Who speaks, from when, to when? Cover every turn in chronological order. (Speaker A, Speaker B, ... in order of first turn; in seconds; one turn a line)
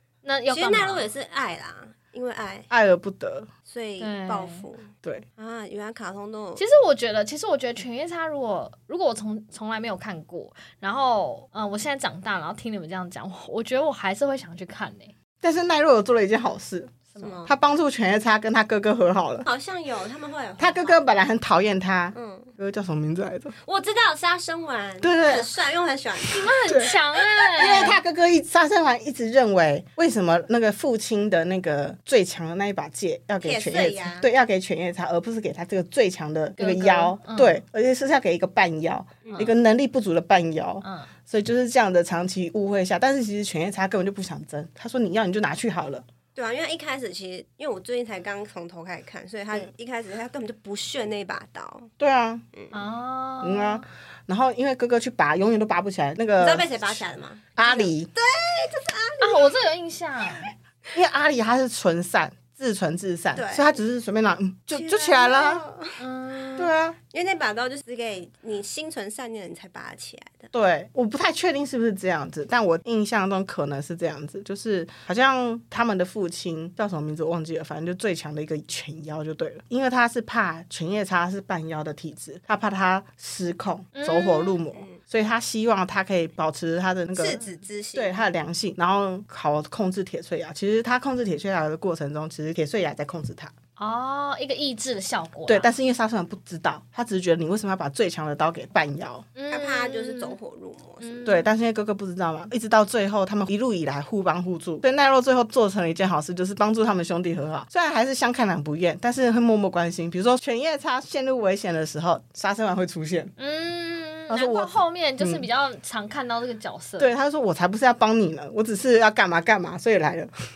Speaker A: 0.2-1.1
Speaker B: 0.5-2.7
Speaker C: 2.7-3.5
Speaker B: 3.7-6.6
Speaker A: 4.0-4.6
Speaker A: 6.6-15.1
Speaker C: 15.4-19.4
Speaker B: 17.1-17.5
Speaker B: 19.4-21.0
Speaker C: 20.6-23.5
Speaker B: 22.1-22.5
Speaker B: 23.6-26.6
Speaker C: 25.0-25.5
Speaker A: 26.3-28.0
Speaker C: 26.7-26.9
Speaker C: 27.6-46.0
Speaker B: 27.6-27.9
Speaker B: 33.4-34.3
Speaker A: 36.6-37.6
Speaker B: 39.2-39.5
Speaker A: 40.8-41.1
Speaker B: 46.3-51.9
Speaker C: 52.0-52.4
Speaker A: 52.7-53.8
Speaker C: 53.4-57.0
Speaker B: 56.4-59.6
Speaker C: 57.6-58.1
Speaker A: 59.2-60.5
Speaker C: 60.9-65.6
Speaker B: 63.3-63.7
Speaker B: 64.7-70.5
Speaker A: 66.0-66.5
Speaker C: 66.6-67.0
Speaker C: 70.5-87.4
Speaker A: 83.9-84.6
Speaker B: 84.7-85.0
Speaker B: 87.2-88.1
Speaker C: 87.9-93.5
Speaker A: 93.8-95.7
Speaker C: 95.5-99.3
Speaker A: 99.3-100.3
Speaker B: 99.5-101.3
Speaker A: 101.0-101.5
Speaker C: 101.2-113.3
Speaker A: 113.4-117.1
Speaker C: 114.3-115.4
Speaker C: 117.0-120.3